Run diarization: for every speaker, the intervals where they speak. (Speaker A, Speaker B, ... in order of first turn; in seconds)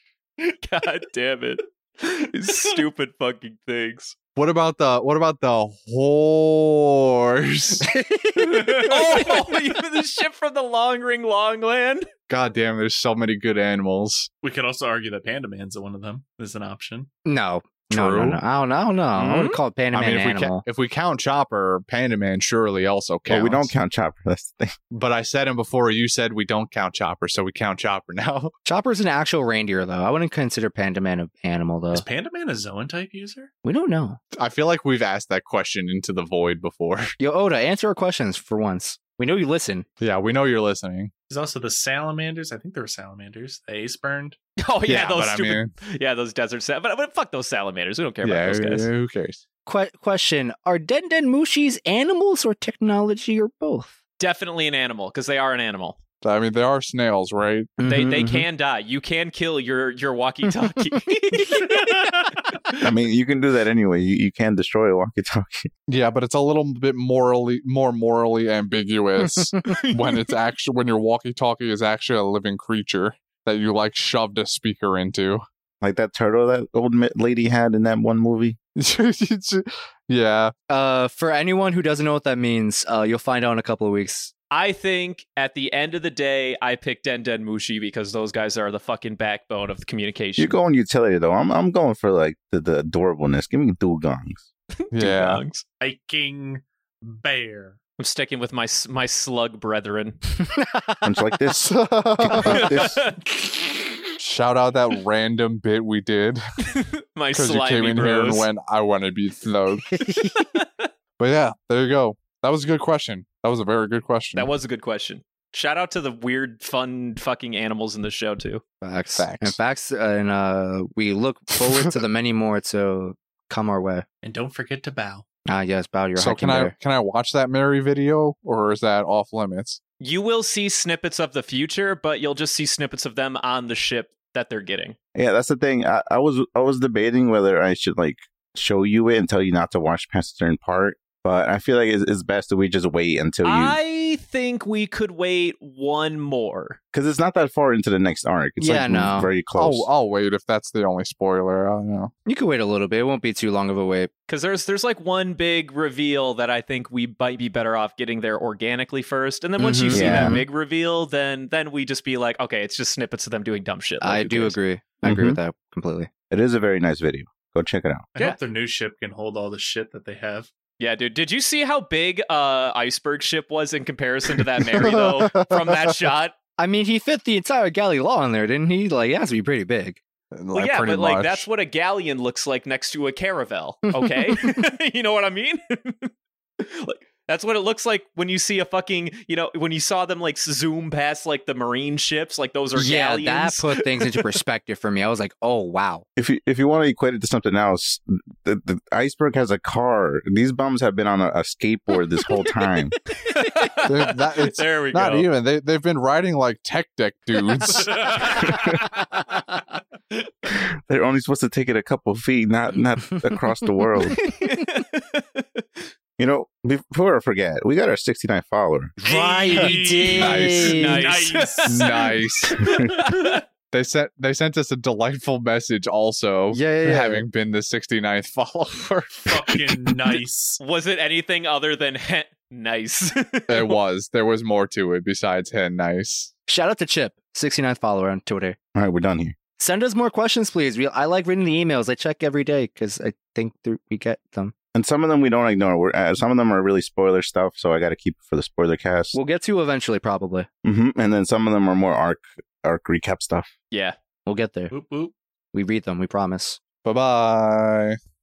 Speaker A: 0.4-4.1, 8.6-12.1, 19.2-19.6, 44.6-48.9, 54.2-56.0, 57.8-62.5, 69.8-70.1, 84.5-90.6, 94.9-95.6, 98.0-100.2, 102.5-103.1, 106.8-108.5, 110.4-110.9, 114.3-118.6, 130.0-135.0, 143.4-146.8, 154.3-164.6, 170.8-176.4, 180.5-186.1, 186.6-194.3, 202.4-205.3, 207.6-208.6, 214.2-215.9, 220.4-223.4, 230.6-233.8
Speaker B: 4.4-7.9, 12.3-14.3, 17.9-18.4, 19.9-23.7, 24.9-28.5, 34.4-37.1, 40.0-41.1, 44.9-45.7, 48.2-49.4, 56.2-57.8, 65.9-75.4, 78.8-80.5, 94.9-95.4, 101.6-102.8, 104.2-106.4, 107.3-109.9, 111.2-114.5, 119.2-119.6, 126.2-129.8, 149.6-152.1, 174.9-175.5, 180.3-181.5, 203.8-208.2, 220.1-220.7, 221.7-222.6, 223.7-229.6, 233.5-236.3, 256.8-258.0
Speaker C: 7.8-9.2, 17.3-20.6, 28.7-32.1, 33.6-34.2, 37.2-39.9, 49.7-53.9, 57.8-58.5, 80.7-84.3, 100.6-101.1, 110.0-110.3, 118.8-124.1, 125.5-126.7, 148.6-149.3, 152.3-154.1, 159.6-160.5, 164.0-166.1, 176.6-180.0, 184.0-184.4, 192.7-196.1, 212.7-214.1, 219.0-221.1, 226.5-227.2, 236.5-238.6, 239.6-244.5, 249.1-250.5, 254.3-254.7, 255.5-256.6
Speaker D: 14.4-17.1, 31.9-33.5, 41.3-44.4, 95.8-97.8, 124.2-125.2, 168.2-170.5, 219.1-222.1, 229.3-230.6, 254.7-255.1
Speaker E: 23.3-24.8, 62.8-65.7, 75.8-78.6, 90.4-94.4, 101.0-103.0, 135.2-143.8, 146.9-149.9, 159.9-160.4, 165.0-165.4, 166.3-168.0, 196.2-202.9, 210.6-214.2, 216.2-218.9, 238.8-239.3, 244.7-249.2, 250.6-253.5